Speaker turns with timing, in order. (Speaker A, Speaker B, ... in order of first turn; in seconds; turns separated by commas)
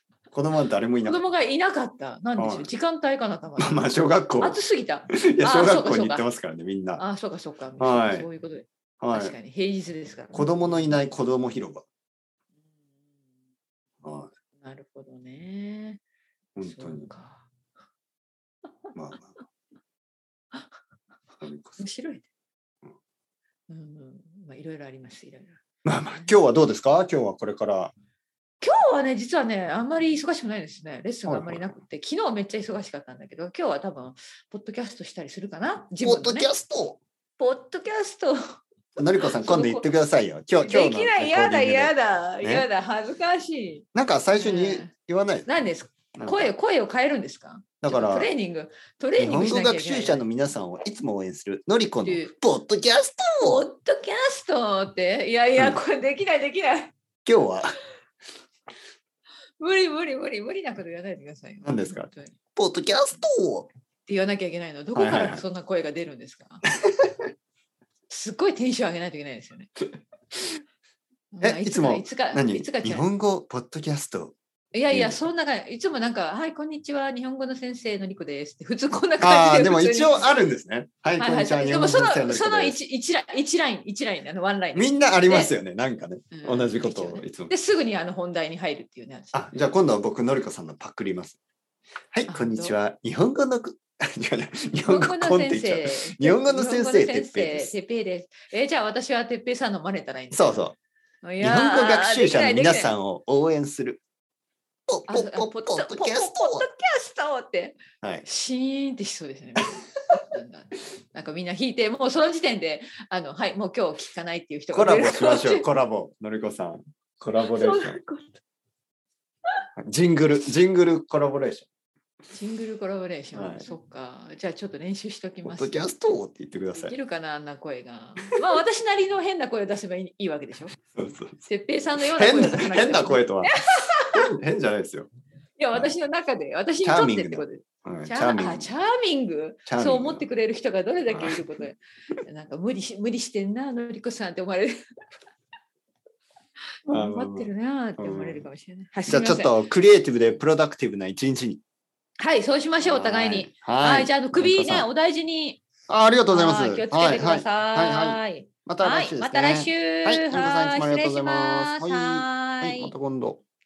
Speaker A: 0.3-1.2, Speaker B: 1.1-6.3, Speaker A: 2.4-2.7, Speaker A: 3.6-4.6, Speaker A: 5.1-7.0, Speaker B: 7.0-11.0, Speaker A: 7.8-8.3, Speaker A: 9.0-9.4, Speaker A: 10.3-11.8, Speaker A: 14.0-14.3, Speaker B: 14.6-16.0, Speaker A: 16.6-17.1, Speaker B: 16.6-17.5, Speaker A: 18.9-19.3, Speaker A: 21.4-21.8, Speaker B: 21.8-22.3, Speaker B: 23.7-26.4, Speaker A: 25.9-27.9, Speaker B: 28.6-36.5, Speaker A: 31.3-31.8, Speaker A: 36.0-37.0, Speaker B: 37.4-38.4, Speaker A: 39.0-42.7, Speaker B: 39.2-39.9, Speaker B: 40.6-44.9, Speaker A: 44.0-45.5, Speaker B: 45.5-50.2, Speaker A: 46.2-46.5, Speaker A: 47.8-48.3, Speaker A: 49.2-53.7, Speaker B: 52.0-52.3, Speaker B: 53.4-56.9, Speaker A: 57.2-57.8, Speaker B: 59.6-62.4, Speaker A: 61.6-63.7, Speaker B: 64.1-66.6, Speaker A: 65.0-65.4, Speaker B: 68.1-69.7, Speaker B: 71.3-73.1, Speaker A: 71.4-74.3, Speaker B: 74.7-80.3, Speaker A: 74.9-75.3, Speaker A: 79.2-82.8, Speaker B: 81.2-85.5, Speaker A: 84.8-87.5, Speaker B: 86.3-89.7, Speaker A: 89.3-91.4, Speaker A: 92.1-97.8, Speaker B: 92.3-92.8, Speaker B: 94.8-100.7, Speaker A: 100.3-100.8, Speaker B: 101.2-102.9, Speaker A: 101.4-104.0, Speaker A: 104.9-106.7, Speaker B: 105.1-115.7, Speaker A: 114.7-118.0, Speaker B: 117.4-118.4, Speaker A: 119.8-121.7, Speaker B: 122.3-125.9, Speaker A: 123.3-123.7, Speaker A: 125.5-126.9, Speaker B: 126.8-130.8, Speaker A: 130.9-131.4, Speaker B: 131.4-134.2, Speaker A: 132.0-133.6, Speaker A: 134.1-135.1, Speaker B: 135.6-144.8, Speaker A: 136.8-138.7, Speaker A: 139.7-140.2, Speaker A: 141.1-141.4, Speaker B: 146.9-149.6, Speaker A: 146.9-148.5, Speaker A: 149.1-151.6, Speaker B: 152.2-155.6, Speaker A: 152.8-154.9, Speaker A: 155.9-163.4, Speaker B: 156.3-162.9